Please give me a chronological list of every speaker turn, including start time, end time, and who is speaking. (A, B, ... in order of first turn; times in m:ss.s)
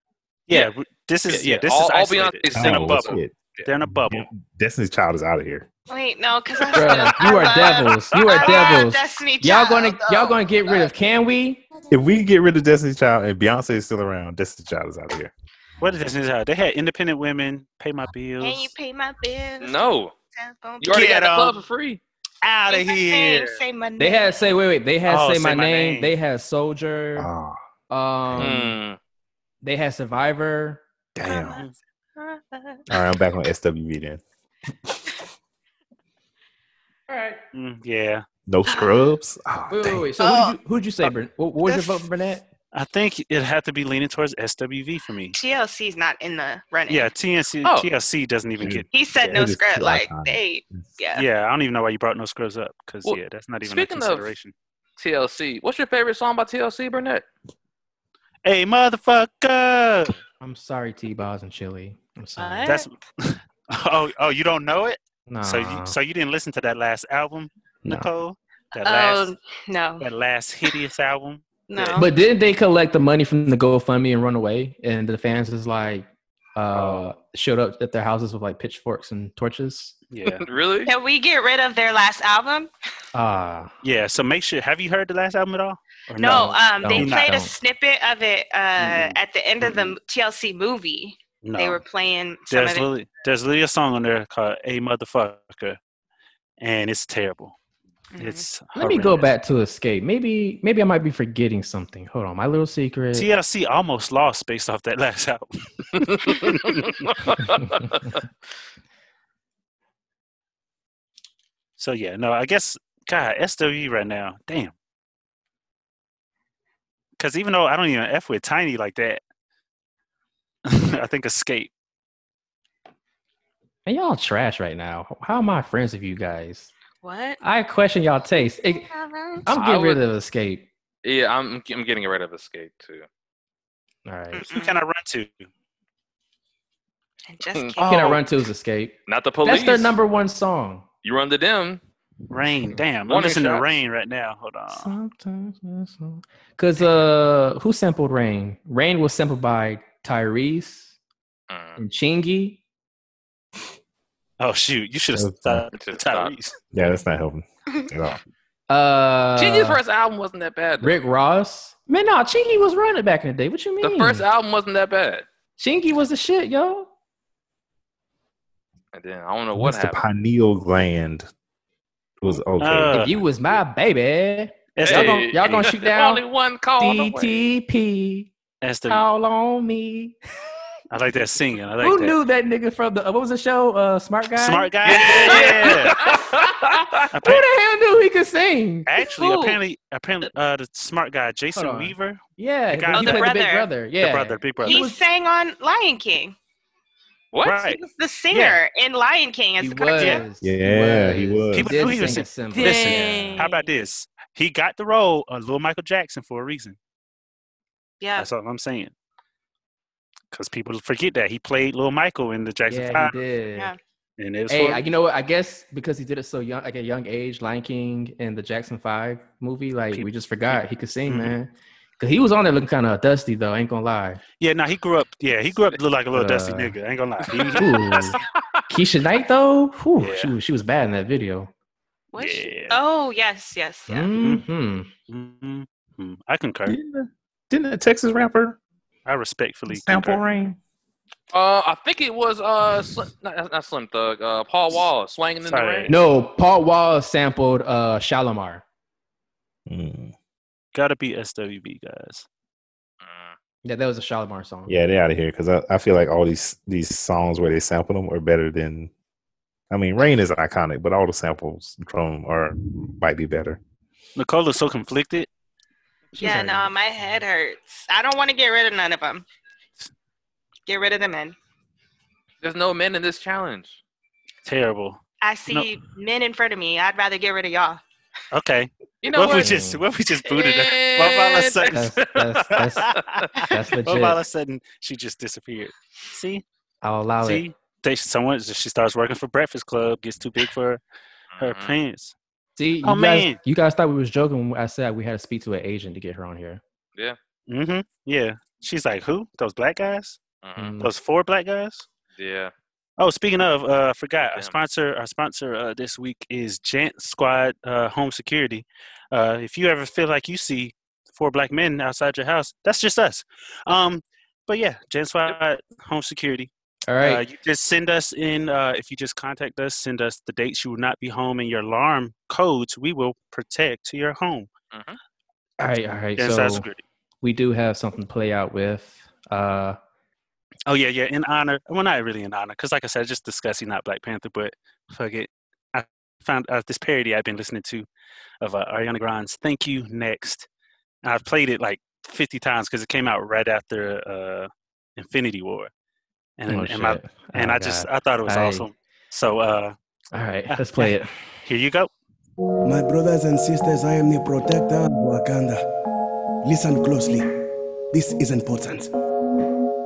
0:00.5-0:03.1 A
0:01.3-0:03.6 B
0:02.5-0:05.7 C
0:03.6-0:04.3 A
0:05.9-0:10.9 D
0:06.7-0:11.6 E
0:11.9-0:15.3 C
0:15.8-0:18.7 A
0:18.4-0:21.3 D
0:19.6-0:20.1 B
0:20.8-0:22.0 B
0:20.9-0:21.6 A
0:22.4-0:23.6 A
0:22.7-0:24.5 D
0:24.0-0:27.3 E
0:25.0-0:26.1 A
0:27.2-0:27.6 C
0:27.9-0:28.8 E
0:28.4-0:29.0 B
0:29.6-0:30.8 E
0:31.2-0:31.6 C
0:31.2-0:32.8 D
0:32.9-0:34.2 C
0:37.1-0:37.4 E
0:37.5-0:38.2 A
0:38.4-0:40.0 C
0:39.7-0:42.4 E
0:40.2-0:40.6 D
0:41.6-0:42.1 D
0:42.7-0:45.3 A
0:45.3-0:47.1 D
0:46.9-0:48.9 A
0:47.6-0:47.9 B
0:48.6-0:50.9 C
0:48.9-0:51.2 D
0:51.1-0:54.5 A
0:53.0-0:54.3 B
0:55.0-0:57.3 B
0:58.4-1:00.2 A
1:00.4-1:02.8 E
1:02.4-1:02.9 D
1:02.6-1:09.3 A
1:05.3-1:05.9 E
1:08.8-1:10.0 D
1:10.0-1:12.0 A
1:11.7-1:12.1 D
1:12.0-1:20.0 E
1:16.7-1:17.1 A
1:20.1-1:20.4 A
1:20.2-1:20.9 B
1:20.8-1:22.7 D
1:23.1-1:23.7 E
1:23.8-1:27.2 A
1:26.2-1:32.9 D
1:26.3-1:27.5 E
1:28.8-1:29.9 A
1:31.4-1:31.8 A
1:32.5-1:35.8 A
1:36.6-1:37.6 A
1:38.1-1:38.4 D
1:38.2-1:39.3 A
1:38.8-1:43.3 E
1:43.1-1:47.0 A
1:46.0-1:48.2 B
1:51.8-1:54.7 A
1:57.2-1:59.2 A
2:00.6-2:01.7 A
2:03.8-2:06.7 E
2:07.0-2:07.4 D
2:07.4-2:08.9 E
2:08.8-2:09.4 D
2:09.4-2:10.7 E
2:09.5-2:10.0 B
2:11.0-2:13.0 B
2:14.0-2:14.4 E
2:14.3-2:14.8 D
2:14.5-2:15.4 A
2:17.3-2:18.2 D
2:17.5-2:18.1 B
2:17.8-2:20.9 E
2:19.0-2:20.0 B
2:21.0-2:21.8 B
2:22.3-2:24.9 A
2:23.1-2:23.7 B
2:24.7-2:30.9 E
2:31.5-2:31.8 B
2:31.8-2:32.6 E
2:34.4-2:36.5 A
2:35.1-2:35.6 C
2:35.7-2:36.3 B
2:36.7-2:38.2 C
2:38.7-2:39.8 E
2:39.4-2:41.0 B
2:40.8-2:44.3 E
2:43.8-2:45.2 B
2:45.6-2:46.9 E
2:48.9-2:50.0 B
2:49.5-2:51.3 C
2:52.2-2:53.1 C
2:52.6-2:53.2 A
2:52.9-2:58.3 E
2:54.8-2:55.7 A
2:54.8-2:57.4 B
2:58.6-2:59.0 A
2:58.9-3:00.2 E
3:00.9-3:02.2 A
3:01.8-3:09.0 E
3:04.3-3:06.0 A
3:04.8-3:07.1 B
3:07.1-3:07.4 A
3:08.9-3:13.3 A
3:09.2-3:09.6 D
3:11.5-3:15.0 E
3:12.9-3:13.7 D
3:14.0-3:14.8 A
3:14.6-3:16.4 D
3:17.3-3:17.6 B
3:17.4-3:17.8 A
3:17.6-3:20.2 D
3:18.3-3:18.6 A
3:19.6-3:23.4 E
3:20.0-3:20.2 A
3:20.4-3:22.2 C
3:21.5-3:26.8 A
3:22.4-3:23.5 B
3:28.0-3:28.3 D
3:28.2-3:28.9 A
3:30.3-3:33.2 A
3:32.7-3:33.7 E
3:34.2-3:34.8 A
3:34.5-3:44.2 E
3:39.9-3:41.4 A
3:44.4-3:48.1 A
3:46.1-3:46.8 E
3:47.4-3:48.2 E
3:48.2-3:48.6 B
3:48.7-3:51.5 E
3:50.0-3:50.3 A
3:52.1-3:54.1 D
3:52.2-3:52.8 A
3:53.9-3:54.9 E
3:54.2-3:54.4 A
3:55.1-3:56.8 A
3:56.7-3:58.6 C
3:59.0-4:00.2 A
3:59.7-4:00.6 C
4:01.3-4:05.9 B
4:05.4-4:05.9 A
4:05.9-4:08.6 E
4:09.7-4:10.1 C
4:10.7-4:12.2 A
4:13.0-4:13.3 B
4:13.6-4:14.7 E
4:14.7-4:18.9 C
4:19.7-4:23.6 C
4:24.2-4:25.3 A
4:26.2-4:26.5 A
4:26.2-4:29.2 D
4:26.2-4:26.6 E
4:30.7-4:31.4 D
4:32.4-4:33.8 B
4:34.4-4:35.7 A
4:35.2-4:37.8 D
4:38.3-4:41.9 A
4:39.0-4:39.6 B
4:39.2-4:39.8 E
4:40.3-4:43.4 B
4:41.7-4:42.9 E
4:42.5-4:43.3 A
4:43.4-4:44.2 E
4:43.8-4:46.4 A
4:46.8-4:47.4 E
4:47.2-4:50.8 A
4:51.3-4:51.8 B
4:51.4-4:52.1 A
4:52.6-4:56.6 E
4:52.8-4:53.4 A
4:57.5-5:00.2 A
5:00.4-5:00.8 B
5:00.6-5:00.9 E
5:00.8-5:01.9 A
5:02.1-5:02.5 B
5:03.0-5:24.5 A
5:16.9-5:17.2 E
5:24.7-5:25.0 B
5:25.6-5:26.6 E
5:26.2-5:26.8 A
5:27.2-5:29.8 E
5:30.7-5:37.9 A
5:38.4-5:40.5 A
5:41.0-5:45.7 A
5:46.4-5:49.7 A
5:46.5-5:48.6 E
5:50.1-5:51.2 E
5:50.5-5:51.9 A
5:52.6-5:55.6 F
5:56.4-5:57.3 F
5:57.9-5:58.9 F